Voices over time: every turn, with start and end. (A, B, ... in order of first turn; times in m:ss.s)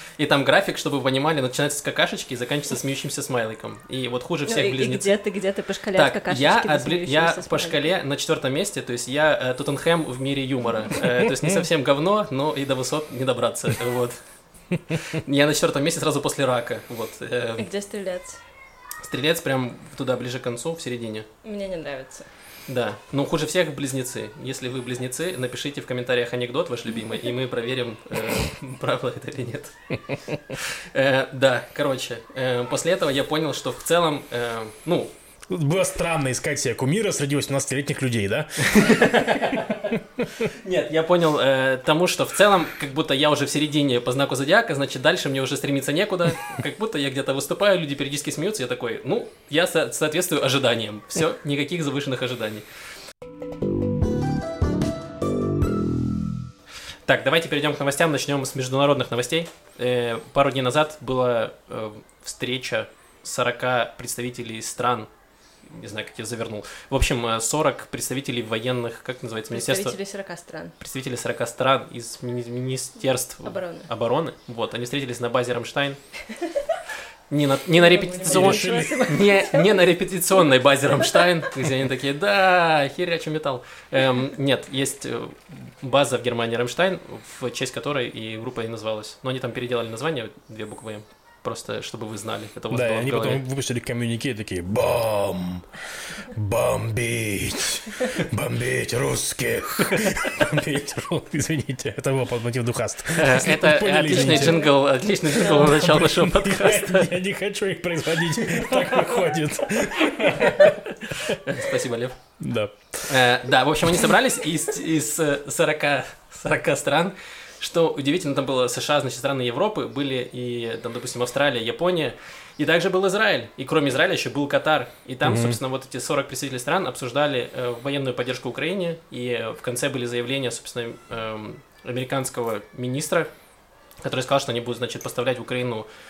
0:00.2-0:05.1 A
0:04.4-0:07.9 B
0:05.9-0:14.2 A
0:11.2-0:11.6 C
0:14.9-0:17.6 A
0:17.6-0:18.4 B
0:19.0-0:21.3 A
0:21.4-0:22.3 B
0:22.7-0:35.1 A
0:35.5-0:40.5 C
0:38.6-0:52.6 A
0:57.0-1:05.1 A
1:05.6-1:10.0 A
1:09.5-1:10.7 B
1:10.8-1:16.0 A
1:13.4-1:13.9 B
1:16.3-1:16.6 B
1:17.3-1:33.4 A
1:17.7-1:19.8 B
1:18.3-1:19.1 C
1:32.7-1:51.4 C
1:43.2-1:47.1 A
1:48.6-1:49.0 A
1:50.1-1:52.4 A
1:52.4-1:53.3 C
1:53.0-2:13.3 A
2:05.2-2:05.6 C
2:14.0-2:15.9 A